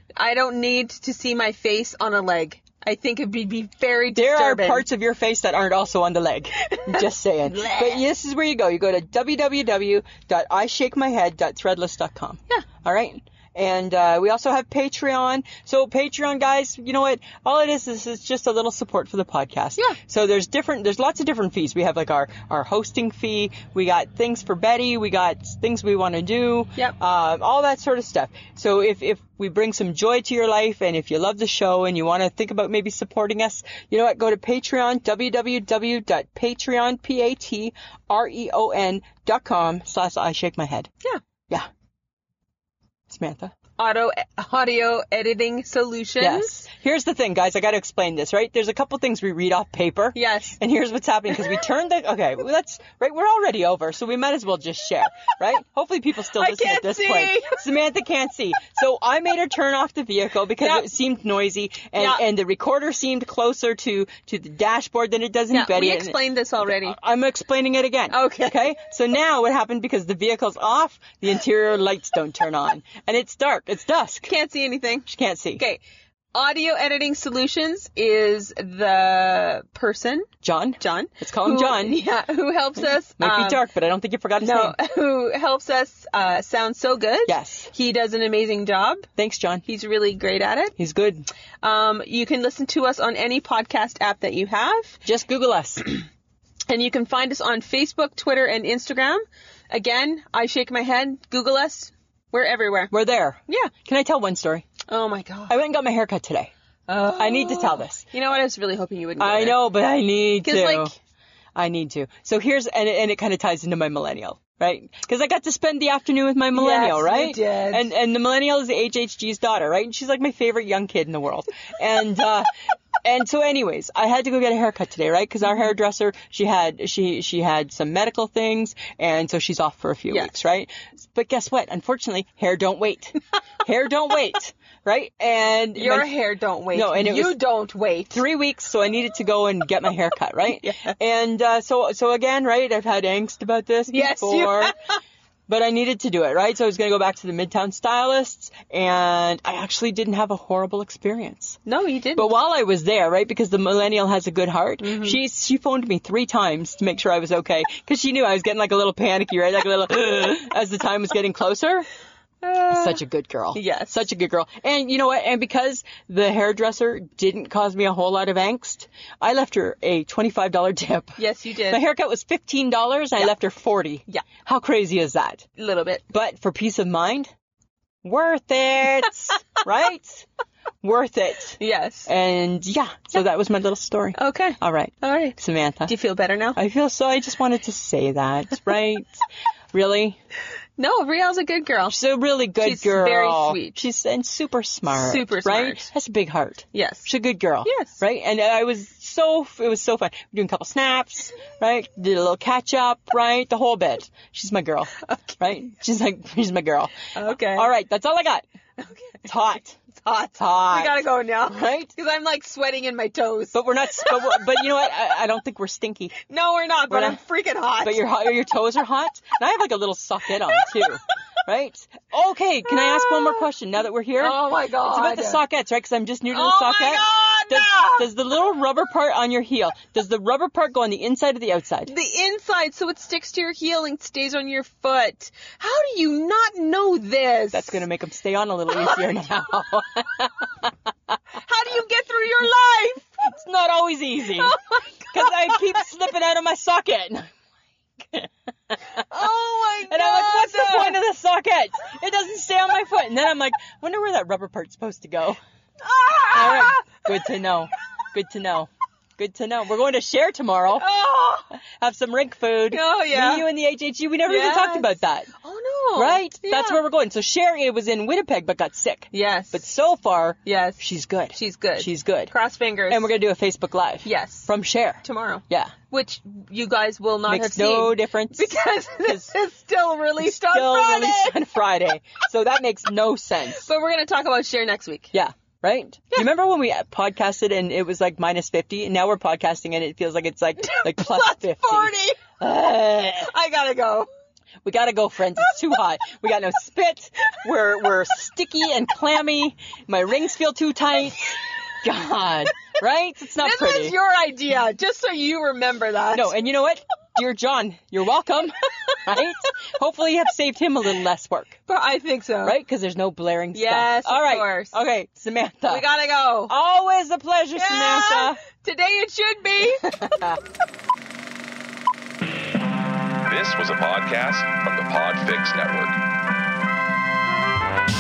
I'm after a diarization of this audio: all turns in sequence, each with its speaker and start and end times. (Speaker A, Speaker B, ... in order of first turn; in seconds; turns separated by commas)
Speaker A: 0.2-4.9, Speaker B: 4.1-40.9, Speaker A: 6.6-8.1, Speaker B: 43.1-43.5, Speaker A: 43.8-46.6, Speaker B: 46.2-74.3, Speaker A: 50.1-50.6, Speaker A: 56.4-57.6, Speaker A: 60.6-60.9, Speaker A: 62.0-62.2, Speaker A: 65.5-67.0, Speaker A: 68.1-68.7, Speaker A: 74.3-75.8, Speaker B: 75.1-75.6, Speaker A: 76.3-83.6, Speaker B: 80.4-82.0, Speaker B: 83.2-84.8, Speaker A: 84.4-89.1, Speaker B: 87.3-87.7, Speaker B: 89.2-89.6, Speaker A: 89.7-90.8, Speaker B: 90.8-91.3, Speaker A: 91.6-95.0, Speaker B: 95.0-95.8, Speaker A: 96.7-102.9, Speaker B: 102.9-104.7, Speaker A: 104.9-105.6, Speaker B: 105.5-106.5, Speaker A: 106.9-109.7, Speaker B: 107.2-108.1, Speaker B: 109.2-110.9, Speaker A: 110.4-110.9, Speaker B: 111.5-122.5, Speaker A: 116.5-117.9, Speaker B: 123.0-136.1, Speaker A: 135.8-138.2, Speaker B: 136.7-137.4, Speaker B: 138.1-144.7, Speaker A: 140.5-141.0, Speaker A: 143.9-145.0, Speaker B: 145.5-151.6, Speaker A: 151.7-152.3, Speaker B: 152.2-161.9, Speaker A: 154.8-155.2, Speaker A: 162.4-163.0, Speaker B: 162.7-175.5, Speaker A: 163.5-164.1, Speaker A: 171.2-171.8, Speaker A: 175.6-176.0, Speaker B: 176.1-177.3, Speaker B: 178.0-180.3, Speaker B: 180.8-185.9, Speaker A: 181.6-182.1, Speaker A: 184.2-186.6, Speaker B: 186.6-190.2, Speaker A: 190.8-192.0, Speaker B: 191.9-208.4, Speaker A: 192.6-193.8, Speaker A: 194.9-195.9, Speaker A: 196.7-197.1, Speaker A: 197.6-198.0, Speaker A: 205.0-205.4, Speaker A: 207.2-207.7, Speaker A: 208.8-209.3, Speaker B: 209.2-209.8, Speaker A: 209.9-214.6, Speaker B: 210.4-211.9, Speaker B: 213.5-216.2, Speaker A: 216.3-218.0, Speaker B: 216.9-217.2, Speaker B: 217.8-231.9, Speaker A: 220.5-220.8, Speaker A: 223.1-223.3, Speaker A: 224.2-225.4, Speaker A: 226.3-228.1, Speaker A: 231.9-237.8, Speaker B: 237.5-240.7, Speaker A: 238.7-239.1, Speaker A: 241.4-243.2, Speaker B: 243.2-244.6, Speaker A: 244.3-245.8, Speaker B: 245.1-247.3, Speaker B: 248.0-249.3, Speaker A: 248.9-251.0, Speaker B: 249.9-255.4, Speaker A: 255.8-257.0, Speaker B: 256.3-260.9, Speaker A: 260.8-261.5, Speaker B: 261.5-265.3, Speaker A: 262.7-263.5, Speaker A: 264.3-266.8, Speaker B: 265.9-272.3, Speaker A: 269.1-269.6, Speaker A: 270.4-270.8, Speaker A: 271.3-273.1, Speaker B: 272.9-275.7, Speaker A: 274.0-281.4, Speaker B: 277.3-279.3, Speaker B: 280.2-283.7, Speaker A: 283.6-285.1, Speaker B: 285.1-293.3, Speaker A: 290.6-292.3, Speaker A: 293.2-294.1, Speaker B: 294.6-303.9, Speaker A: 303.4-306.4, Speaker B: 306.1-311.6, Speaker A: 311.7-312.6, Speaker B: 312.4-315.9, Speaker A: 313.5-314.8, Speaker A: 315.7-316.5, Speaker B: 316.5-318.4, Speaker A: 317.6-320.1, Speaker B: 319.8-320.4, Speaker C: 323.2-326.0